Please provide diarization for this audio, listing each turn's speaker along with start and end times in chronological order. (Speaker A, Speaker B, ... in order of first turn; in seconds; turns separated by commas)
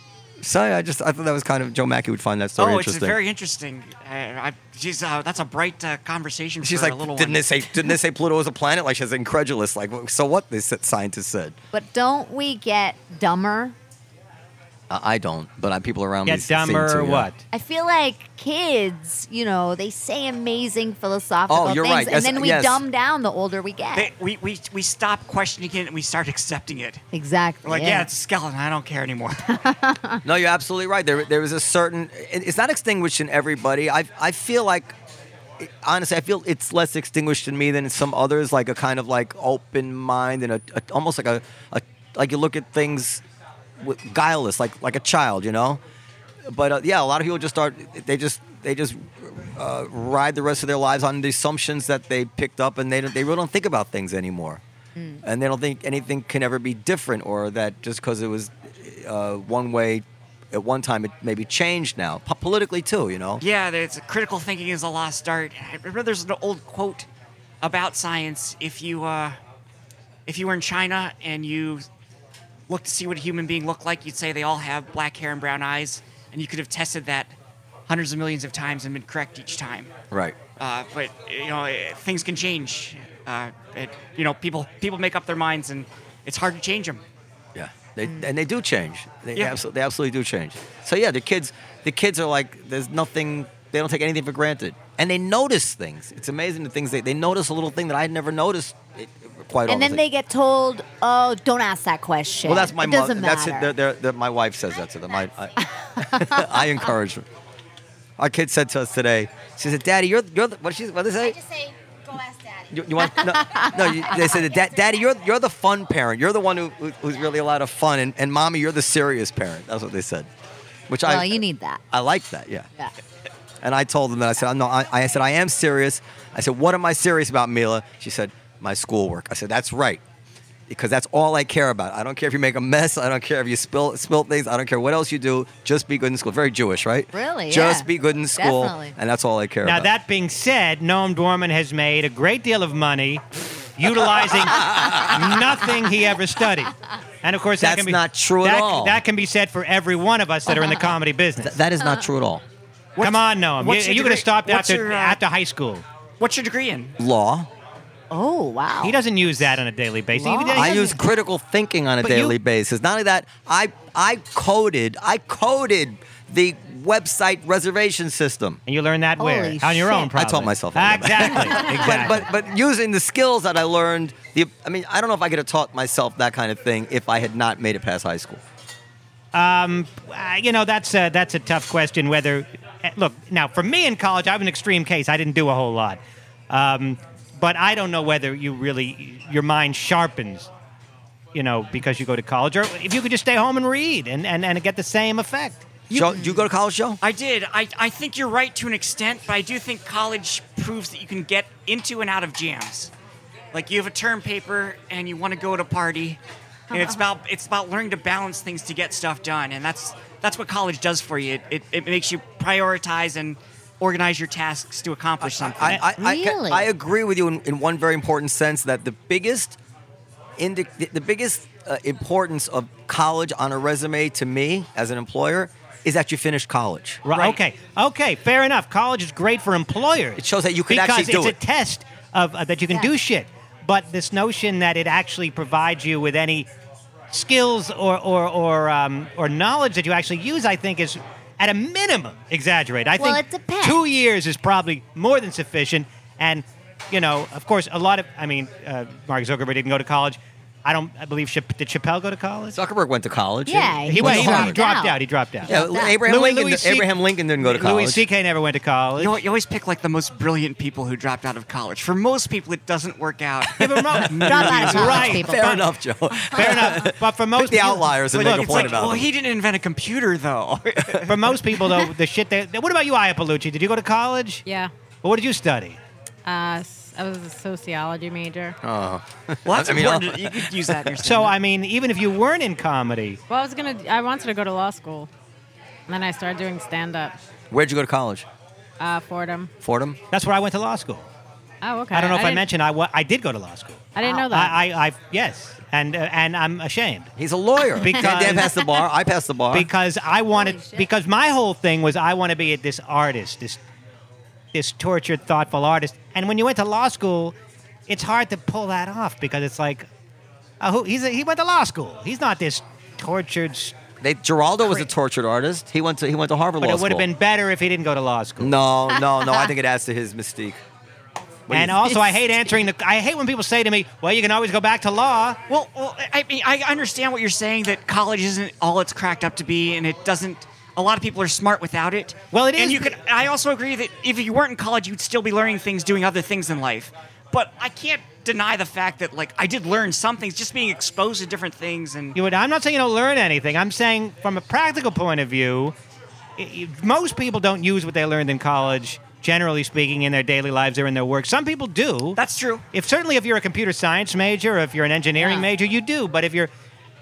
Speaker A: 0.4-3.2, Speaker B: 2.6-7.8, Speaker A: 6.6-11.6, Speaker C: 11.7-13.8, Speaker A: 14.9-17.3, Speaker D: 16.2-17.4, Speaker C: 17.5-24.1, Speaker A: 21.5-22.8, Speaker B: 23.9-27.0, Speaker C: 27.1-28.1, Speaker B: 27.6-29.6, Speaker C: 29.5-30.2, Speaker A: 30.2-34.9, Speaker A: 35.6-43.2, Speaker A: 43.8-45.8, Speaker A: 46.4-54.6, Speaker C: 55.0-55.2, Speaker A: 55.2-63.4, Speaker B: 63.4-67.1, Speaker B: 67.6-69.4, Speaker B: 70.3-71.8, Speaker B: 72.7-77.3, Speaker B: 77.9-79.9, Speaker A: 80.1-80.4, Speaker B: 80.6-87.0, Speaker A: 87.5-100.0, Speaker C: 99.7-103.7, Speaker A: 102.4-107.3, Speaker C: 105.6-106.6, Speaker A: 108.2-111.4, Speaker E: 111.2-114.8, Speaker A: 112.7-120.3, Speaker C: 113.2-114.3, Speaker A: 120.9-122.7, Speaker C: 121.0-121.8, Speaker A: 123.6-130.0, Speaker A: 130.7-139.9, Speaker C: 137.1-138.9, Speaker D: 139.6-143.2, Speaker D: 143.8-151.6, Speaker A: 144.5-145.2, Speaker A: 147.6-149.0, Speaker C: 150.5-150.8, Speaker A: 151.4-152.4, Speaker B: 153.0-155.2, Speaker D: 153.0-155.8, Speaker B: 156.2-156.9, Speaker A: 157.0-157.5, Speaker C: 158.1-159.0, Speaker D: 158.8-161.0, Speaker C: 160.1-160.9, Speaker A: 160.5-168.6, Speaker D: 162.0-162.3, Speaker D: 168.7-172.2, Speaker C: 169.2-170.1, Speaker A: 170.1-178.4, Speaker D: 179.3-190.5, Speaker D: 191.3-195.8, Speaker A: 195.9-197.0, Speaker B: 197.0-202.9, Speaker B: 203.5-206.2, Speaker B: 206.7-215.8, Speaker A: 215.2-219.6, Speaker C: 216.0-216.7, Speaker A: 220.4-227.0, Speaker D: 227.0-236.5, Speaker B: 227.1-227.4, Speaker A: 230.2-231.3, Speaker D: 237.1-252.6, Speaker C: 243.0-243.8, Speaker A: 252.5-254.6, Speaker C: 253.5-256.0, Speaker D: 253.9-259.2, Speaker A: 255.4-258.0, Speaker B: 259.0-265.2, Speaker D: 263.6-265.6, Speaker A: 264.2-269.1, Speaker C: 264.2-265.6, Speaker D: 266.3-268.9, Speaker B: 268.1-271.7, Speaker D: 271.1-274.4, Speaker F: 274.4-274.7, Speaker D: 275.0-275.8, Speaker F: 276.2-278.6, Speaker A: 278.6-280.8, Speaker B: 279.4-281.4, Speaker D: 281.0-283.2, Speaker F: 283.3-285.1, Speaker F: 285.9-287.2, Speaker A: 287.5-288.3, Speaker F: 288.8-289.5, Speaker A: 289.6-290.0, Speaker D: 290.1-291.1, Speaker F: 291.6-292.5, Speaker D: 291.9-297.1, Speaker F: 293.9-294.6, Speaker A: 297.2-299.7, Speaker D: 297.8-298.6, Speaker D: 299.5-303.6, Speaker C: 300.3-300.9, Speaker D: 304.5-307.4, Speaker D: 307.9-309.9, Speaker D: 310.6-313.8, Speaker A: 314.0-317.1, Speaker D: 316.6-318.5, Speaker A: 318.4-320.6, Speaker A: 321.5-321.8, Speaker D: 321.5-325.4, Speaker B: 325.5-342.1, Speaker D: 332.3-333.0, Speaker D: 342.1-345.7, Speaker D: 346.4-352.2, Speaker B: 352.1-352.6, Speaker D: 352.7-356.5, Speaker C: 355.2-355.5